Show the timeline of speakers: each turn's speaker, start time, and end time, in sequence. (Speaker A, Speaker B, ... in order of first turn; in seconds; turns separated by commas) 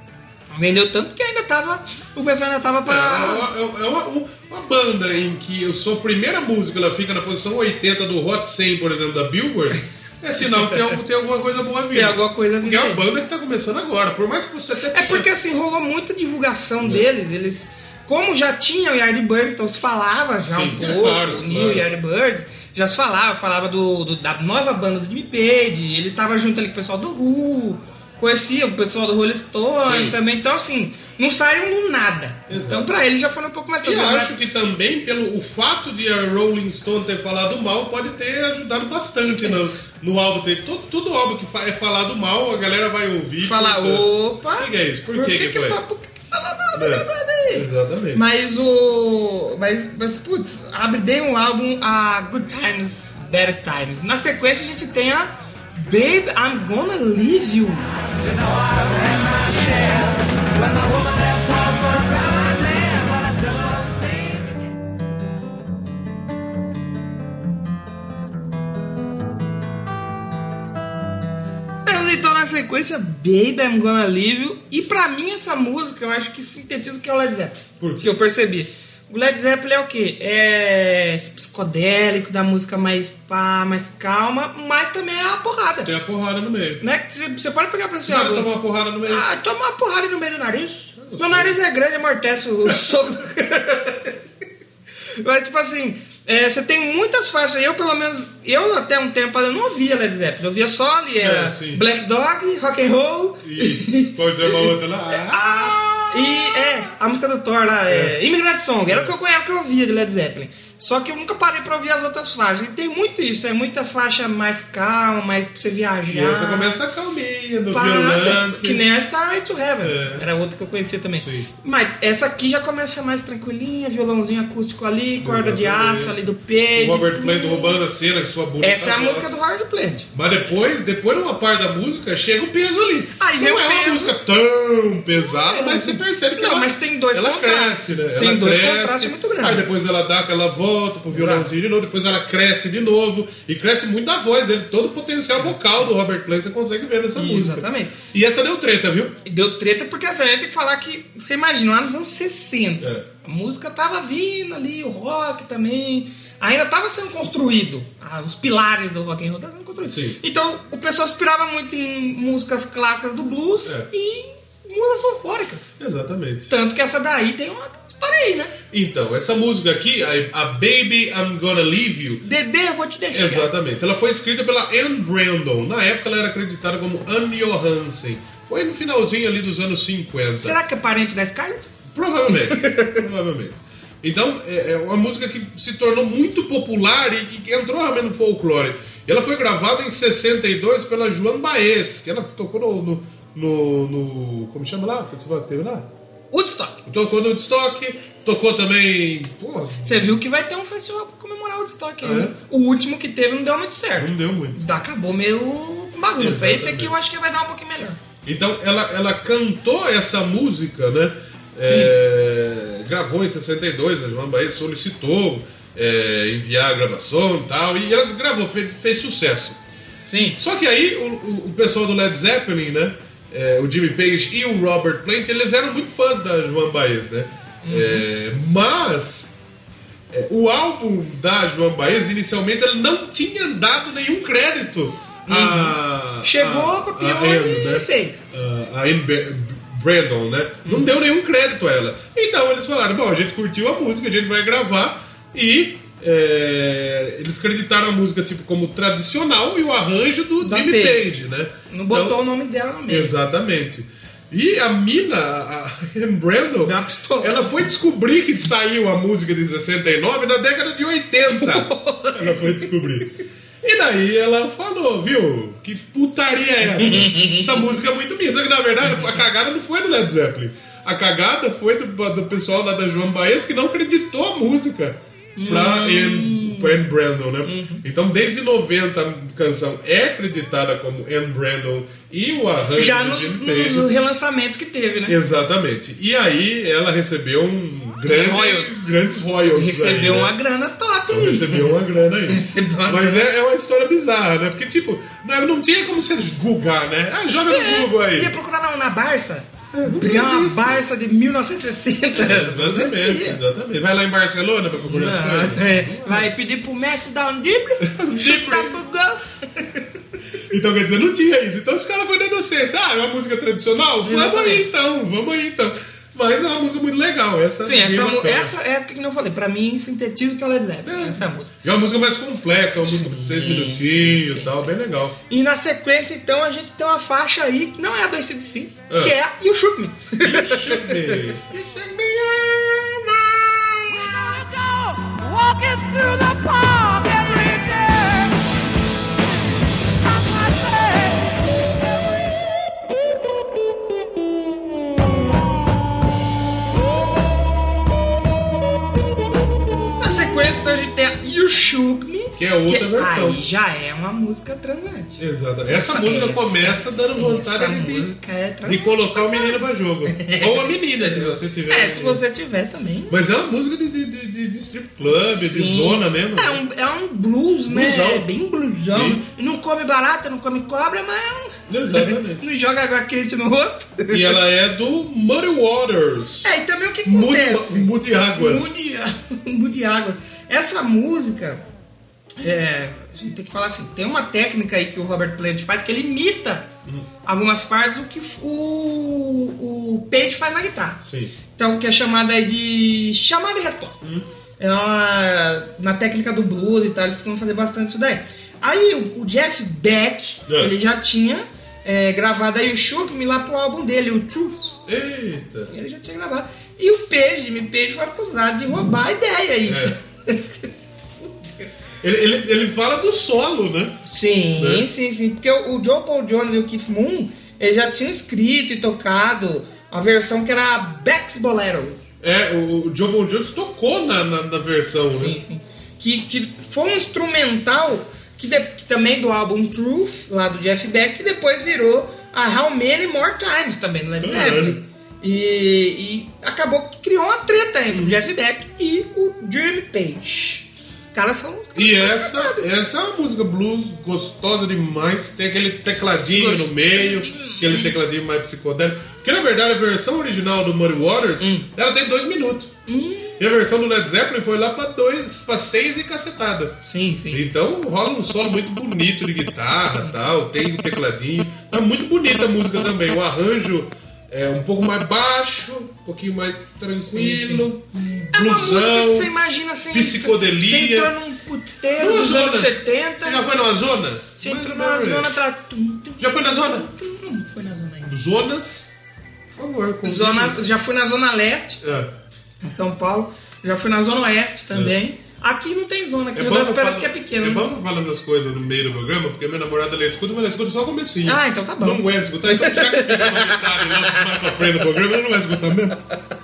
Speaker A: 0.5-3.5, Speaker B: 2.9-15.3, Speaker A: 11.9-13.0, Speaker A: 14.9-34.3, Speaker B: 16.8-17.1, Speaker B: 20.5-21.9, Speaker B: 29.8-30.1, Speaker B: 32.5-32.9, Speaker B: 33.8-45.8, Speaker A: 43.4-57.9, Speaker B: 46.7-48.2, Speaker C: 58.1-64.6, Speaker A: 71.8-85.9, Speaker B: 77.8-78.1, Speaker B: 85.8-86.8, Speaker A: 86.8-88.5, Speaker B: 88.0-89.2, Speaker A: 89.0-94.2, Speaker B: 91.0-91.5, Speaker A: 95.2-116.8, Speaker B: 101.2-101.8, Speaker B: 103.4-106.8, Speaker B: 107.9-108.2, Speaker B: 108.9-109.1, Speaker B: 116.1-118.8, Speaker A: 117.7-127.8, Speaker B: 119.8-120.2, Speaker B: 121.2-121.5, Speaker B: 125.2-126.2, Speaker B: 126.8-129.4, Speaker A: 128.6-130.1, Speaker B: 130.1-149.2, Speaker A: 133.2-134.1, Speaker A: 135.1-139.6, Speaker A: 141.1-141.5, Speaker A: 147.1-147.9, Speaker A: 149.2-165.8, Speaker B: 152.8-153.1, Speaker B: 159.8-160.2, Speaker B: 165.8-166.5, Speaker A: 166.5-168.6, Speaker B: 168.7-172.2, Speaker A: 172.2-173.5, Speaker B: 173.1-180.6, Speaker A: 180.4-181.7, Speaker B: 181.9-195.9, Speaker A: 182.3-183.0, Speaker A: 196.3-196.8, Speaker B: 196.8-200.1, Speaker A: 199.8-208.0, Speaker B: 202.0-202.3, Speaker B: 204.0-204.6, Speaker B: 206.2-206.9, Speaker B: 208.2-219.6, Speaker A: 220.1-220.4, Speaker B: 220.4-229.3, Speaker A: 227.6-228.0, Speaker B: 230.1-252.2, Speaker A: 235.3-238.2, Speaker A: 250.4-251.0, Speaker A: 251.7-253.1, Speaker B: 252.9-263.1, Speaker A: 256.6-257.6, Speaker A: 261.2-262.7, Speaker B: 263.6-283.9, Speaker A: 266.6-267.6, Speaker A: 268.8-269.2, Speaker A: 275.4-276.7, Speaker A: 277.4-277.8, Speaker A: 282.8-285.1, Speaker B: 285.1-290.3, Speaker A: 288.1-289.0, Speaker A: 289.5-291.7, Speaker B: 291.1-298.3, Speaker A: 292.3-293.2, Speaker A: 297.5-303.4, Speaker B: 299.7-300.8, Speaker B: 302.1-306.3, Speaker A: 304.9-309.8, Speaker B: 307.8-308.8, Speaker B: 310.5-318.5, Speaker A: 314.0-314.6, Speaker A: 317.6-321.5, Speaker B: 320.8-325.1, Speaker A: 322.9-324.7, Speaker A: 325.3-331.2, Speaker B: 328.9-329.1, Speaker B: 330.2-333.3, Speaker C: 333.8-338.5, Speaker C: 340.0-342.2, Speaker A: 350.0-363.1, Speaker B: 352.4-353.4, Speaker B: 355.2-358.1, Speaker B: 358.6-362.2, Speaker B: 363.1-366.6, Speaker A: 365.1-374.4, Speaker B: 367.7-368.2, Speaker B: 368.9-369.2, Speaker B: 371.7-372.4, Speaker B: 374.1-376.5, Speaker A: 376.4-381.6, Speaker B: 377.1-378.7, Speaker A: 382.4-386.7, Speaker A: 387.2-391.0, Speaker B: 391.0-391.3, Speaker A: 391.5-394.0, Speaker A: 394.6-404.8, Speaker B: 400.5-400.7, Speaker B: 404.9-405.7, Speaker A: 405.7-411.7, Speaker B: 409.6-409.9, Speaker B: 412.0-414.0, Speaker A: 414.1-422.0, Speaker B: 414.6-414.9, Speaker B: 422.2-425.4, Speaker A: 425.1-442.6, Speaker B: 434.2-434.8, Speaker B: 437.9-438.2, Speaker B: 441.8-452.7, Speaker A: 446.3-447.9, Speaker A: 451.4-451.7, Speaker A: 452.9-453.4, Speaker B: 453.4-456.8, Speaker A: 456.9-457.5, Speaker B: 457.3-469.3, Speaker A: 467.1-473.5, Speaker B: 469.9-471.1, Speaker B: 472.0-475.3, Speaker A: 474.4-478.2, Speaker B: 476.2-476.9, Speaker B: 478.1-478.9, Speaker B: 479.5-480.6, Speaker A: 480.0-481.8, Speaker B: 481.8-482.1, Speaker A: 482.6-487.7, Speaker B: 486.3-496.0, Speaker A: 491.2-494.6